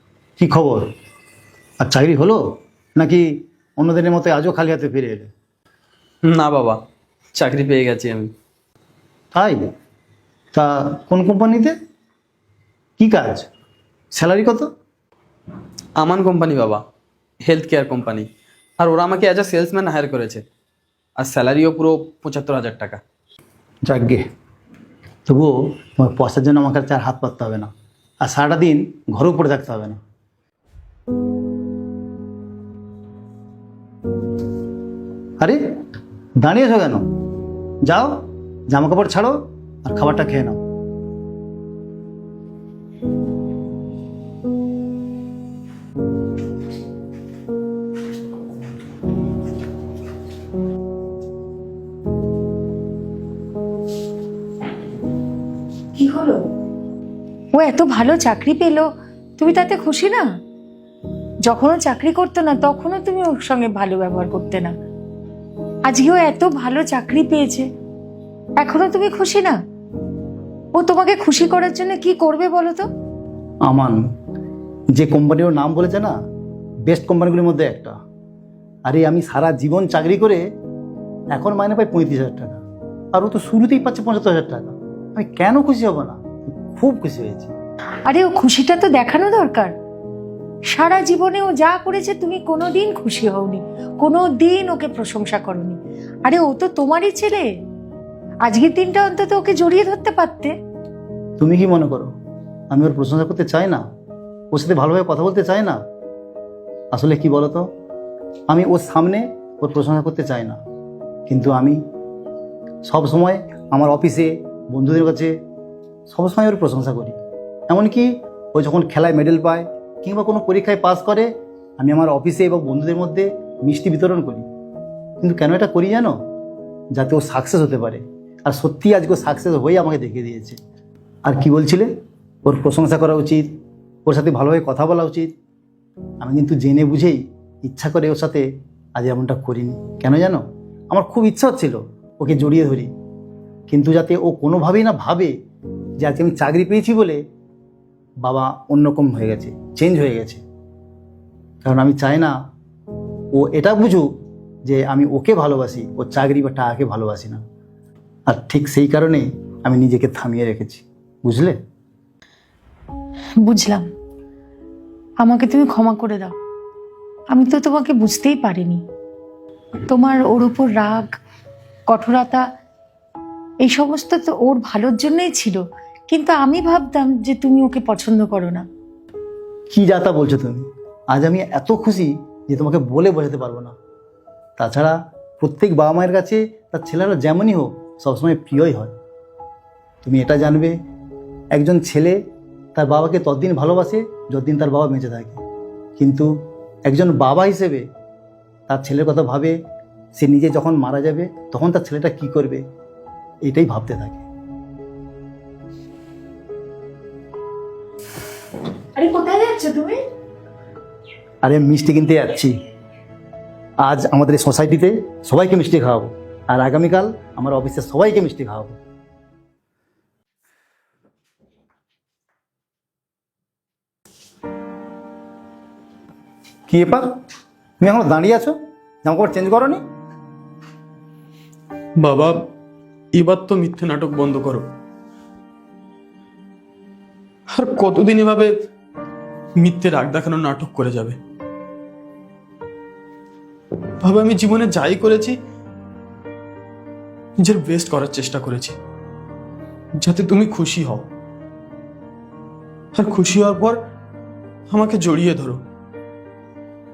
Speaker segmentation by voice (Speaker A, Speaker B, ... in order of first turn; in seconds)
Speaker A: 0.4-0.9, 1.8-2.4, 3.0-5.3, 9.3-9.6, 10.5-11.7, 13.0-13.5, 14.1-14.7, 23.9-24.2, 25.3-27.7, 28.2-30.0, 36.4-37.1, 37.9-40.6, 73.6-74.0, 74.9-76.1, 76.8-78.0, 78.9-80.5, 81.3-82.6, 83.1-87.5, 101.4-102.1, 102.7-103.8, 104.5-105.8, 106.9-107.7, 108.5-110.6, 111.3-111.8, 112.8-115.3, 116.1-117.2, 117.7-124.5, 125.2-126.2, 126.9-130.6, 131.2-131.9, 132.4-133.5, 134.1-135.3, 136.2-142.9, 143.7-145.3, 146.0-147.2, 148.2-150.4, 151.6-152.3, 153.3-154.1, 154.7-157.4, 158.3-161.6, 179.7-183.7, 184.6-188.9, 190.0-190.8, 191.5-192.2, 192.8-195.4, 196.0-196.3, 196.9-197.8, 198.7-199.6, 200.1-202.6, 203.4-204.2, 211.4-212.5, 213.8-218.8, 226.7-227.1, 227.8-229.8
Speaker B: 6.3-6.8, 7.3-8.3, 16.0-16.8, 17.5-18.3, 18.8-20.4, 21.2-23.0, 232.0-232.5, 233.1-234.7, 237.5-238.5, 239.6-241.2, 244.0-245.4, 247.4-248.8, 250.0-251.1, 252.9-253.8, 254.7-255.6
Speaker C: 56.0-56.5, 57.5-60.3, 61.5-64.7, 65.8-67.7, 68.6-69.6, 70.8-72.9, 88.1-89.7, 90.7-97.5, 98.5-100.5, 163.4-163.9, 165.2-166.3, 167.3-168.8, 169.9-171.1, 171.9-172.5, 173.6-178.6, 209.0-210.0